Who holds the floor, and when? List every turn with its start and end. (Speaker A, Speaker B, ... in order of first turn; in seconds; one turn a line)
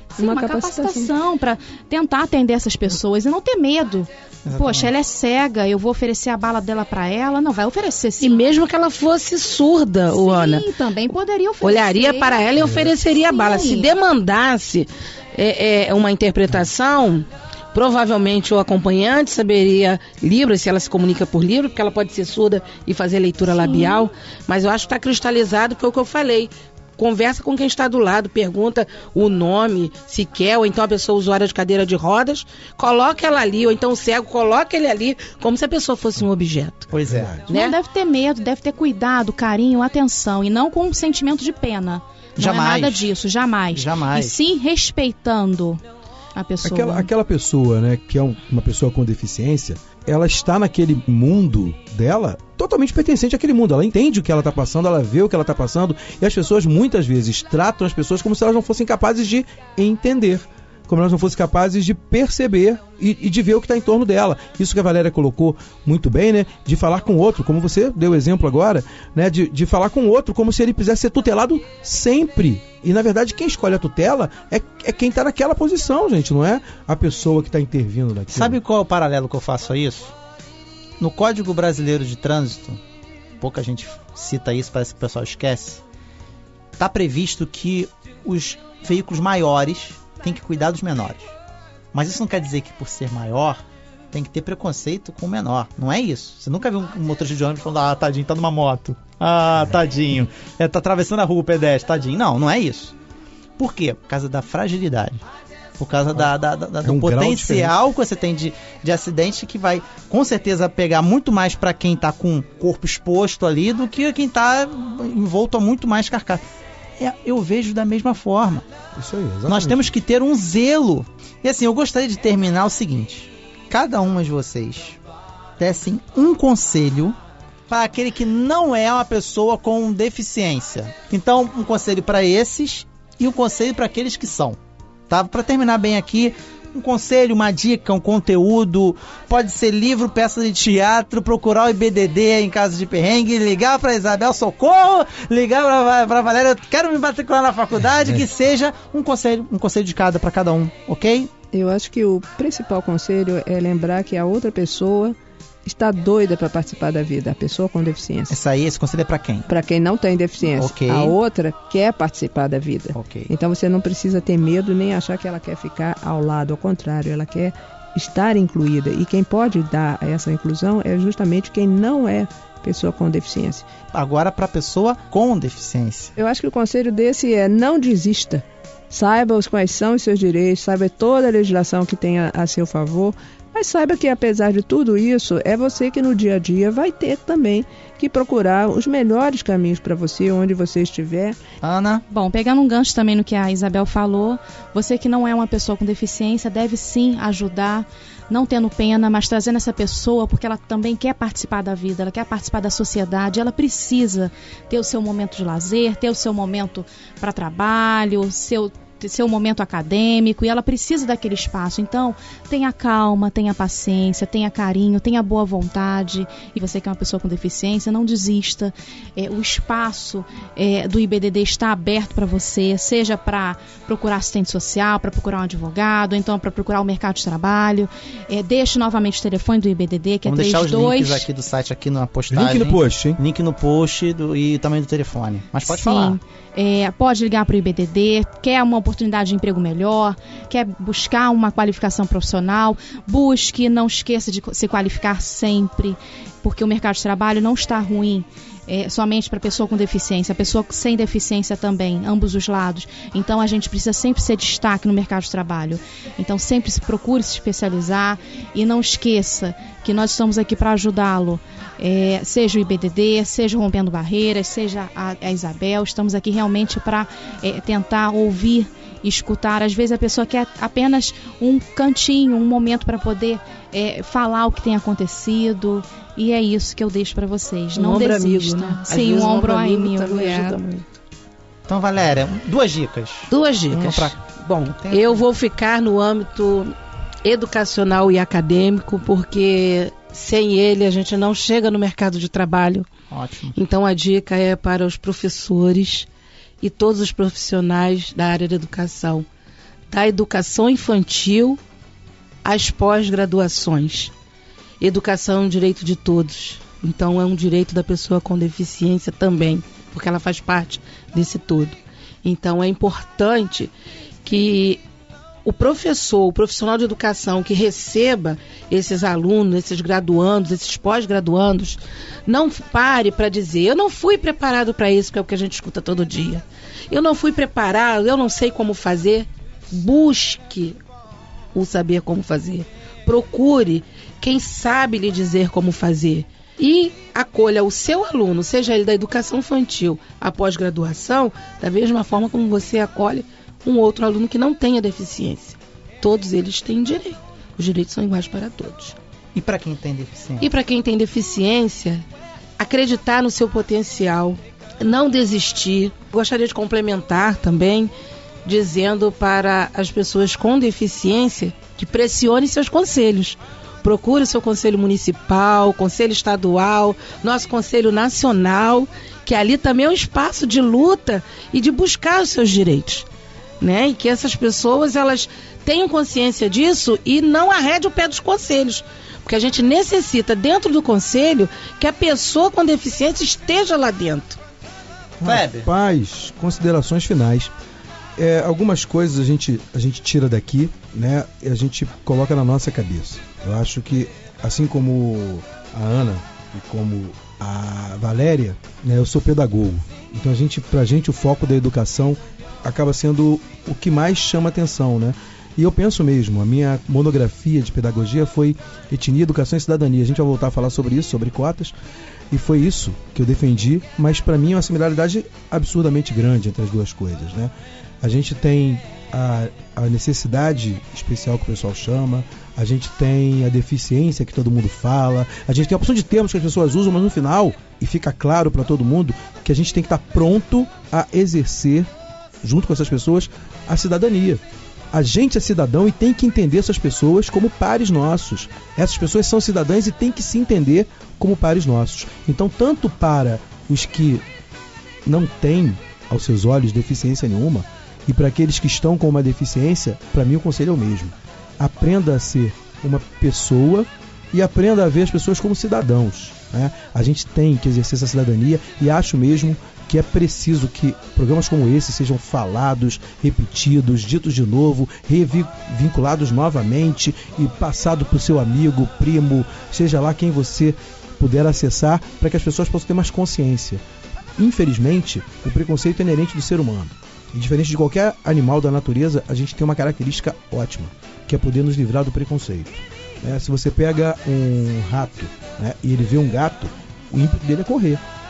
Speaker A: 0.2-1.1
Speaker B: 0.2-8.4
Speaker C: 4.5-4.9
Speaker D: 8.2-10.7
Speaker B: 10.1-13.9
Speaker D: 11.6-36.9
Speaker E: 12.6-12.9
Speaker B: 23.7-24.1
Speaker E: 36.9-37.5
Speaker C: 36.9-37.4
Speaker B: 37.5-45.8
Speaker D: 37.5-37.8
Speaker C: 42.4-43.1
Speaker C: 43.7-44.4
Speaker B: 46.4-47.1
Speaker E: 46.6-78.6
Speaker C: 78.3-80.1
Speaker C: 81.0-82.8
Speaker C: 83.4-85.8
Speaker C: 86.8-91.3
Speaker C: 91.9-102.9
Speaker C: 103.6-105.2
Speaker C: 105.8-116.4
Speaker E: 106.2-107.8
Speaker C: 117.0-118.7
Speaker E: 119.0-120.0
Speaker C: 119.5-125.0
Speaker C: 125.6-127.2
Speaker C: 127.7-151.3
Speaker A: 151.5-158.3
Speaker C: 158.3-159.5
Speaker A: 159.5-173.7
Speaker C: 160.4-161.2
Speaker C: 162.9-163.3
Speaker C: 173.9-176.1
Speaker A: 176.2-191.4
Speaker C: 191.6-192.0
Speaker B: 192.1-231.3
Speaker C: 230.2-236.2
Speaker E: 232.3-233.2
Speaker B: 235.7-280.6
Speaker D: 277.8-280.9
Speaker C: 281.7-285.2
Speaker D: 283.3-292.9
Speaker C: 293.1-293.6
Speaker D: 293.6-296.1
Speaker D: 296.6-299.3
Speaker D: 299.9-301.6
Speaker D: 302.4-304.1
Speaker D: 304.8-313.7
Speaker D: 314.2-314.8
Speaker D: 315.4-330.8
Speaker D: 331.5-349.0
Speaker C: 349.4-350.5
Speaker D: 350.4-352.0
Speaker D: 352.6-357.9
Speaker D: 358.4-373.1
Speaker D: 373.6-384.4
Speaker E: 385.2-387.5
Speaker C: 385.2-385.7
Speaker E: 388.2-411.7
Speaker E: 412.3-431.9
Speaker E: 432.4-444.2
Speaker E: 445.1-473.8
Speaker E: 474.4-488.0